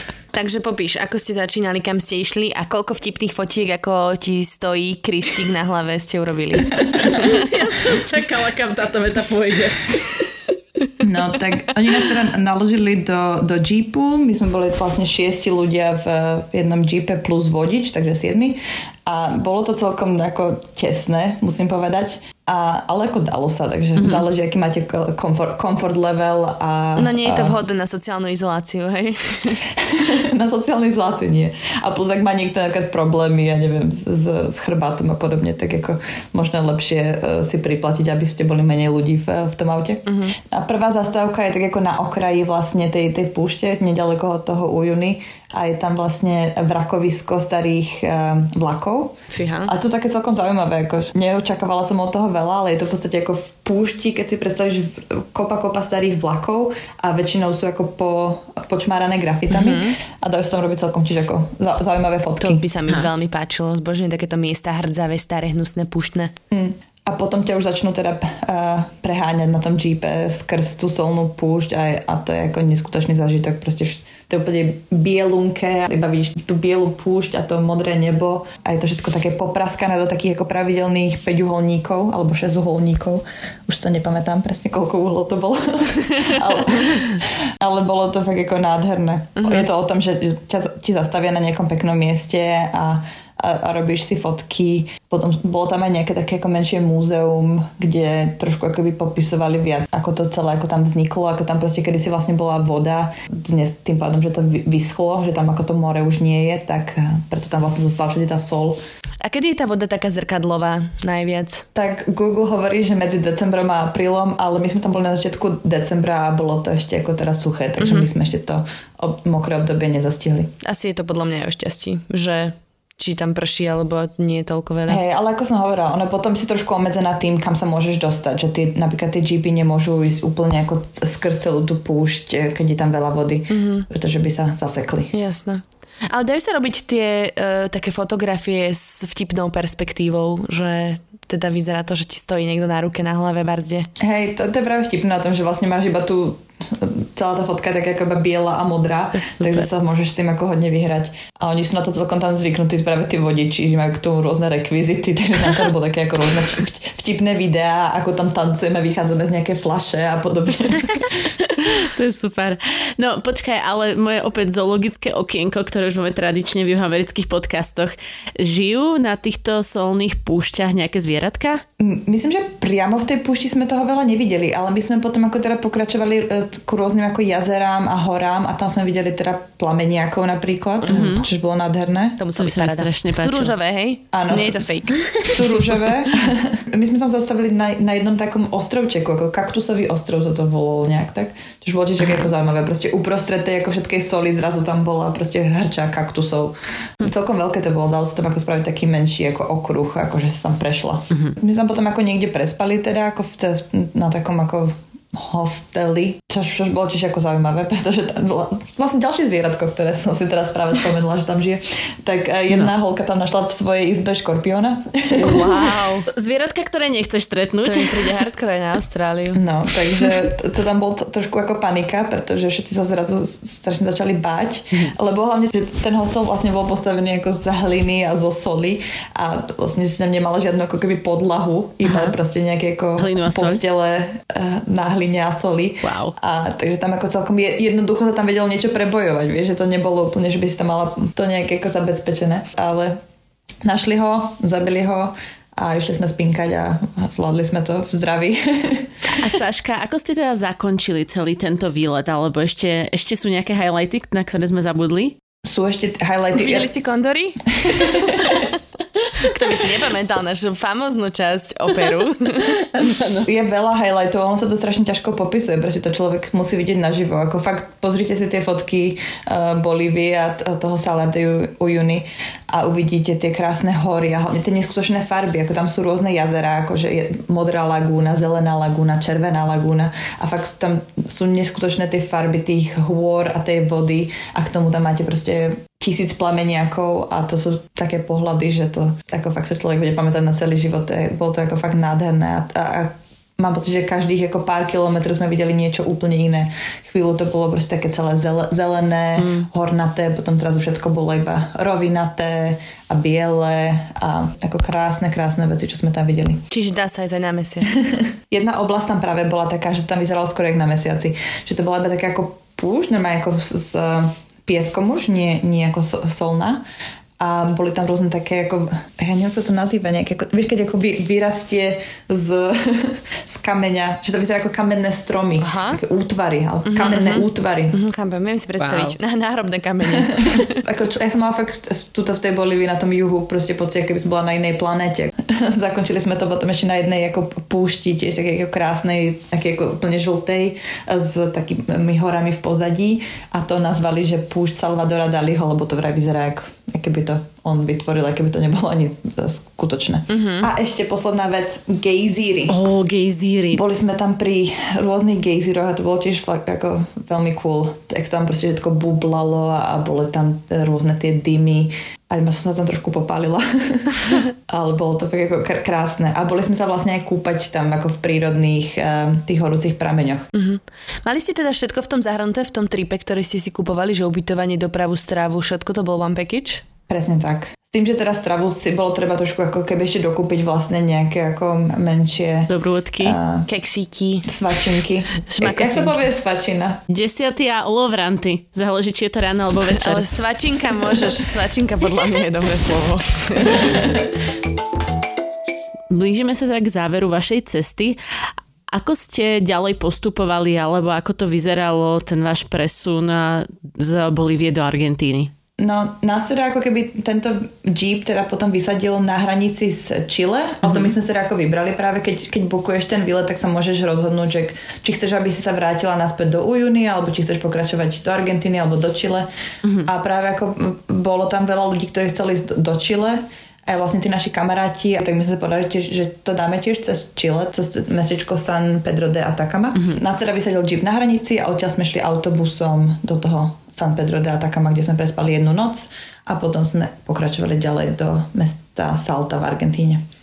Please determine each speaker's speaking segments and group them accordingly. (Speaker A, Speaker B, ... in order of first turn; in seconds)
Speaker A: 0.3-7.5, 27.0-29.6, 40.1-40.4, 49.3-49.7, 59.5-60.0, 62.4-66.3, 89.4-89.7, 109.2-111.7, 117.8-118.1, 120.6-125.0, 133.5-133.9, 135.1-143.9, 149.2-149.7, 180.8-181.1, 182.2-186.0, 215.2-216.1, 217.6-219.4, 256.3-258.5, 259.2-262.6, 306.5-307.8, 325.4-325.8, 326.7-330.6, 350.1-350.5, 370.3-376.7, 383.5-384.3, 385.2-386.0, 389.7-393.8
Speaker B: 7.0-9.9, 24.0-24.3, 161.4-171.6, 180.9-181.3, 182.4-183.6, 215.2-218.1, 231.8-232.1, 233.0-233.6, 235.8-236.1, 249.1-255.2, 262.6-263.3, 299.2-299.5, 328.6-329.0, 352.5-353.6, 382.5-383.2, 386.9-390.1, 395.9-398.0, 398.7-405.3, 410.6-410.9, 419.6-419.9, 429.8-430.0
Speaker C: 11.0-27.6, 29.8-62.6, 66.5-108.8, 111.8-120.5, 124.9-135.1, 144.0-161.3, 171.8-182.2, 184.1-184.7, 185.2-215.5, 219.3-243.0, 243.6-248.9, 255.4-256.7, 257.6-258.5, 263.2-306.4, 307.7-316.6, 317.2-327.8, 329.9-352.6, 353.5-370.3, 376.9-383.5, 384.3-386.8, 393.4-394.1, 405.6-419.3, 419.8-440.0